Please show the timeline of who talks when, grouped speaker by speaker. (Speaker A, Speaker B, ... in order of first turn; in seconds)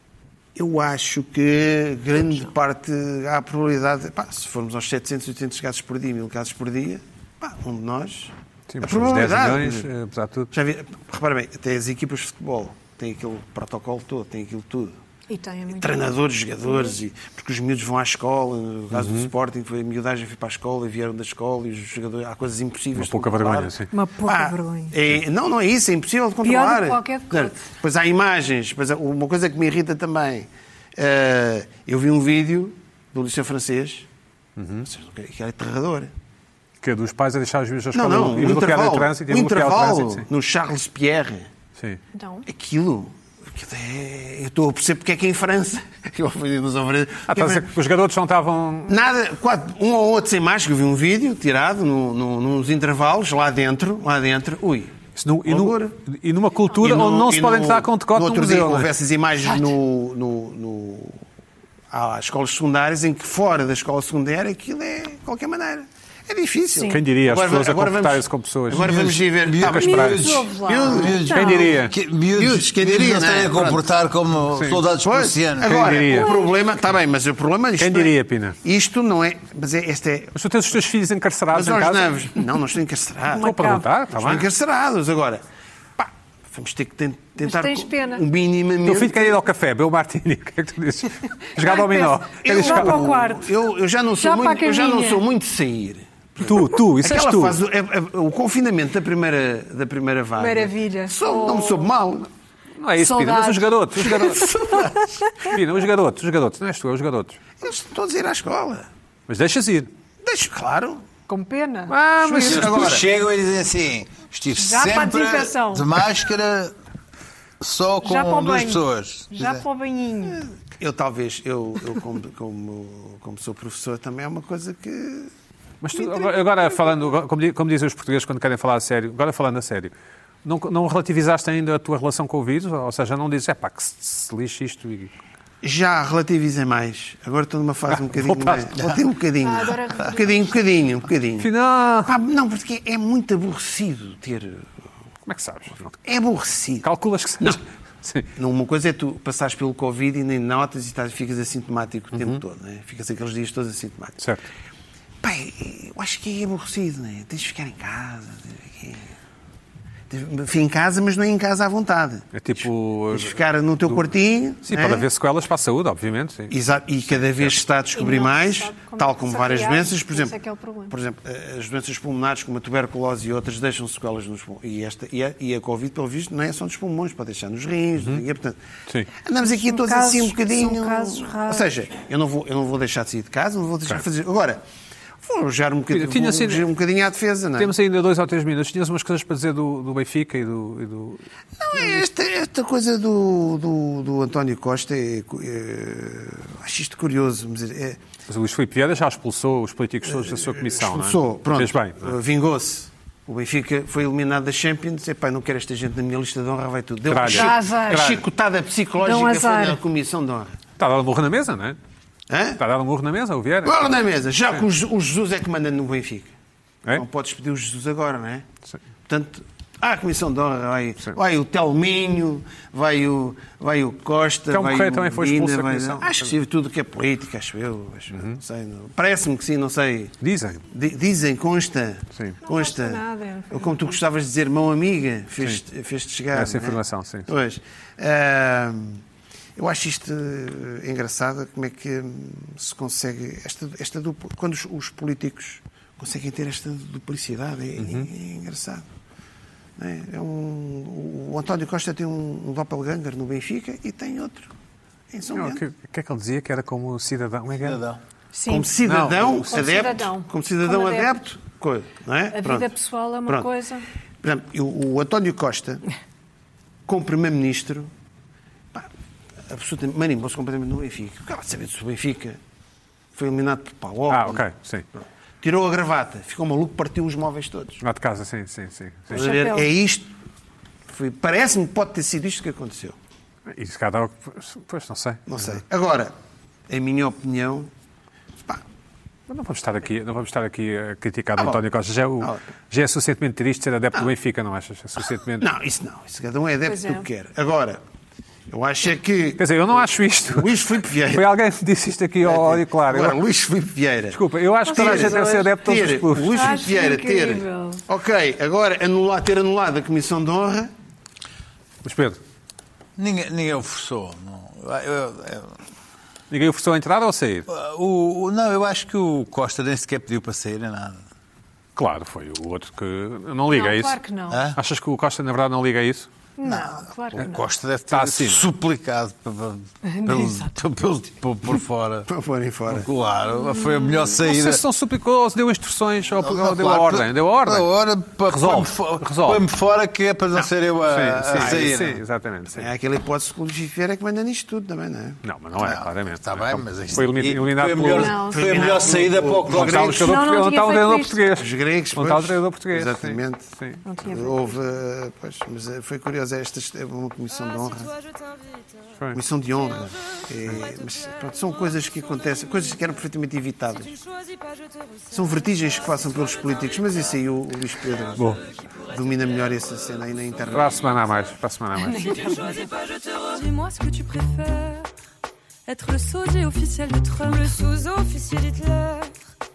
Speaker A: 0.6-9.8, 10.5-15.0, 15.7-23.7, 24.2-34.1, 34.9-36.1, 37.9-41.5, 42.5-47.7, 48.9-55.9, 56.8-61.2, 61.9-71.2, 72.3-73.8, 74.9-80.3, 81.5-85.4, 86.0-89.3, 92.4-102.3, 104.2-105.0, 107.6-108.9, 110.2-111.0, 112.2-113.0, 120.3-125.3, 135.6-141.5, 142.1-144.7, 146.0-146.9, 148.3-154.2, 155.2-159.1, 160.1-162.3, 163.1-165.1, 166.5-170.3, 170.9-178.6, 179.1-184.6, 185.2-187.7, 191.6-198.0, 200.1-210.6, 212.3-212.6, 213.6-216.3, 216.9-218.5, 219.1-230.2, 230.7-239.0, 239.6-248.8, 249.8-254.5, 255.1-255.6, 258.5-262.7, 264.2-265.8, 266.9-267.9, 269.5-272.4, 273.1-274.4, 275.4-277.8, 279.1-280.1, 280.9-283.0, 285.3-286.1, 286.7-287.7, 295.4-297.8, 298.5-301.3, 302.2-304.2, 304.7-310.7, 332.1-332.9, 341.3-341.9, 342.5-345.2, 348.2-350.1, 351.4-353.5, 354.0-357.9, 359.1-364.0, 365.1-370.8
Speaker B: 8.7-10.5, 18.9-19.3, 22.9-23.9, 34.6-34.9, 36.8-40.3, 41.8-42.0, 47.3-48.9, 55.1-58.9, 66.8-69.0, 69.6-70.2, 71.3-71.9, 74.5-74.8, 75.6-76.3, 77.8-78.6, 80.3-82.1, 83.4-84.4, 88.8-93.1, 96.4-97.6, 102.8-104.9, 105.4-107.4, 109.3-109.9, 111.9-113.0, 125.8-129.9, 130.4-135.1, 137.9-138.7, 141.4-142.1, 145.3-146.0, 146.8-148.3, 152.1-152.4, 154.2-154.4, 162.3-164.1, 164.6-166.5, 167.1-167.5, 185.9-186.7, 187.6-191.2, 198.3-202.2, 207.1-208.2, 210.8-211.8, 212.6-213.9, 224.5-226.4, 228.1-228.4, 230.2-230.7, 236.3-237.3, 247.8-248.1, 255.3-257.8, 258.8-259.6, 274.1-274.9, 277.8-279.3, 283.5-285.6, 289.3-295.5, 299.4-300.6, 301.1-303.2, 304.1-306.6, 311.8-312.2, 316.3-317.5, 321.8-324.0, 324.5-326.1, 327.9-328.5, 334.2-337.7, 338.2-339.4, 340.9-342.7, 345.2-348.1, 349.5-353.8, 368.1-368.4, 370.5-372.1
Speaker C: 15.3-16.1, 16.6-17.0, 23.9-24.9, 26.4-27.6, 42.1-42.5, 66.7-67.0, 69.7-71.8, 76.0-76.5, 83.3-83.9, 87.4-88.2, 91.5-93.6, 94.2-95.2, 100.4-101.9, 103.0-105.5, 111.3-111.9, 114.5-116.0, 118.0-120.4, 139.4-140.6, 167.9-170.9, 179.4-181.7, 207.2-208.2, 209.0-209.8, 232.4-233.9, 258.3-261.1, 262.3-263.9, 279.1-279.7, 296.6-297.1, 304.6-305.5, 306.3-307.8, 323.5-324.4, 326.4-327.5, 329.8-330.5, 333.4-334.1, 347.9-348.7, 349.9-351.2, 353.8-354.5, 371.8-372.7
Speaker D: 68.7-75.9, 112.4-116.7, 117.6-119.6, 257.6-258.0, 312.9-315.6, 317.5-321.0, 324.3-324.6, 326.4-332.1, 332.7-334.6, 336.1-342.0, 345.6-350.1
Speaker E: 357.4-358.9, 363.9-365.4, 372.1-374.9, 375.6-379.1